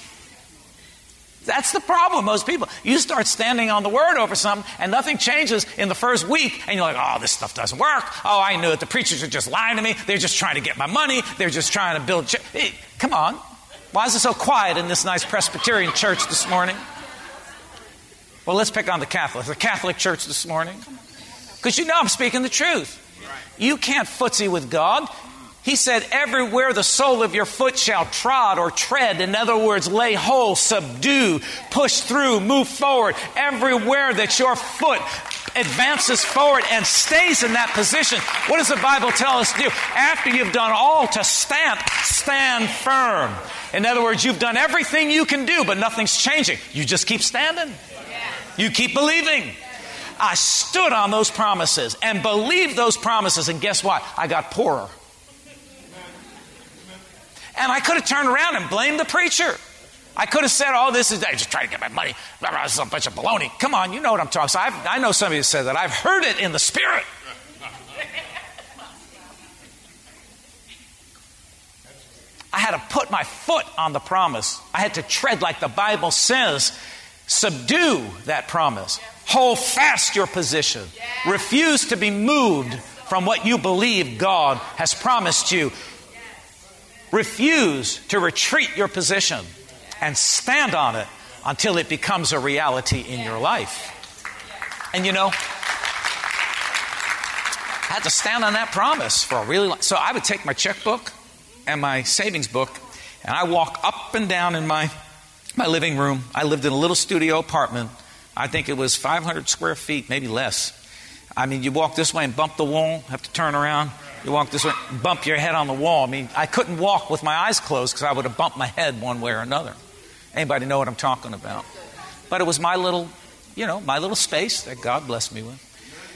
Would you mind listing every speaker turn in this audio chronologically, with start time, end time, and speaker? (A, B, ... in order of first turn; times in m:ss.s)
0:01.4-0:13.4 A
0:13.9-0:16.8 A
0:18.4-0:20.8 A
0:21.6-0:23.0 A
0:23.6-0:25.1 A
0:25.6-0:47.8 A
0:48.6-0:49.6 A
0:50.2-0:54.9 A
0:57.6-0:59.6 A
1:00.2-1:07.0 A
1:12.5-1:16.7 A
1:17.3-1:25.7 A
1:27.1-1:29.4 A
1:30.0-1:33.9 A
1:34.9-1:35.4 A
1:37.9-1:41.1 A
1:41.6-1:44.9 A
1:45.6-1:50.7 A
1:51.4-1:59.8 A
2:00.3-2:01.6 A
2:02.3-2:05.6 A